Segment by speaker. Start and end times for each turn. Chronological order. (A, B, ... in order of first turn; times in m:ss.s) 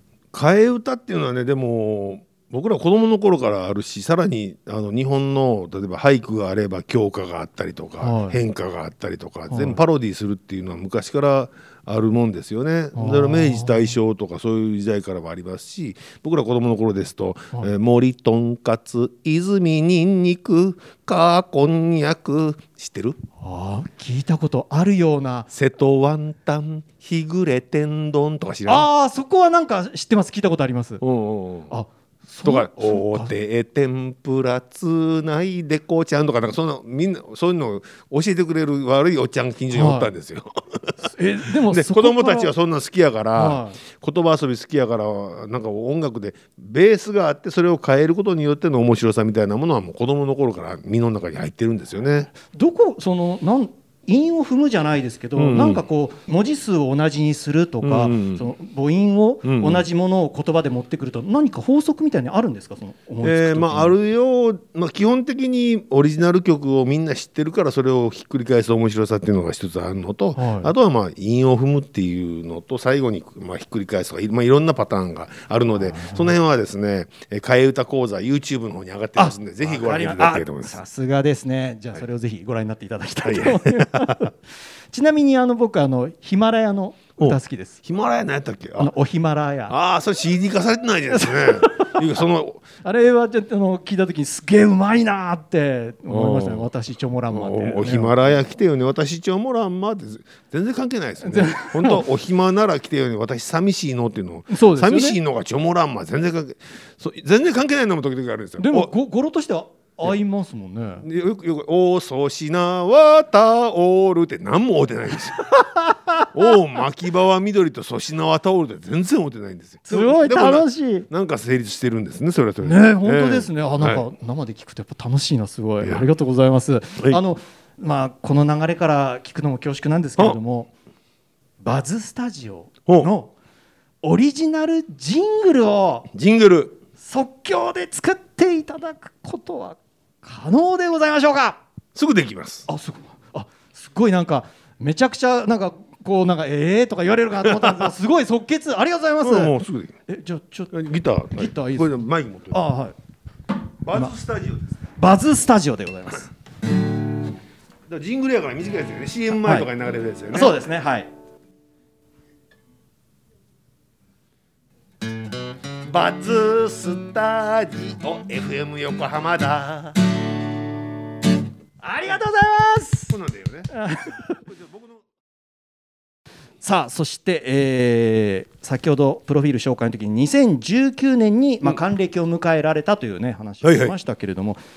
0:00.3-0:23.2 A
0:08.0-0:08.4 B
0:09.5-0:09.8 B
0:13.0-0:13.9 B
0:23.4-0:25.5 B
0:25.5-0:28.9 A
0:28.7-0:31.0 B
0:31.0-0:31.8 A
0:31.7-0:33.3 B
0:32.4-0:41.0 A
0:39.7-0:40.1 B
0:41.0-0:42.5 B
0:41.7-0:52.3 A
0:43.4-0:43.8 B
0:52.4-1:04.0 B
0:55.4-0:55.8 A
0:57.8-0:58.5 A
0:59.4-0:59.8 A
1:03.2-1:20.8 A
1:10.4-1:10.7 B
1:15.8-1:16.4 B
1:19.2-1:24.4 B
1:23.2-1:24.3 A
1:24.9-1:27.8 B
1:27.2-1:28.9 A
1:28.8-1:29.7 B
1:29.7-1:32.6 A
1:31.1-1:31.9 B
1:32.8-1:38.3 B
1:36.1-1:36.7 A
1:37.3-1:48.9 A
1:41.2-1:42.0 B
1:44.5-1:45.2 B
1:48.6-1:51.1 B
1:51.0-1:55.5 A
1:55.4-1:56.3 B
1:56.3-2:04.1 A
1:59.9-2:01.1 B
2:02.6-2:10.7 B
2:11.6-2:13.3 B
2:14.0-2:16.1 B
2:16.1-2:16.8 A
2:17.0-2:21.6 B
2:22.0-2:22.7 A
2:22.7-2:29.5 B
2:27.4-2:27.9 A
2:29.2-2:30.0 A
2:30.1-2:30.7 B
2:30.7-2:32.6 A
2:31.4-2:32.0 B
2:32.5-2:33.0 B
2:33.8-2:34.8 A
2:35.0-2:36.3 B
2:37.9-2:40.6 A
2:39.3-2:39.7 B
2:40.3-2:41.1 B
2:45.9-2:50.0 A
2:51.8-2:53.2 B
2:53.1-2:55.0 A
2:53.7-2:54.4 B
2:56.6-3:04.6 B
3:03.6-3:04.0 A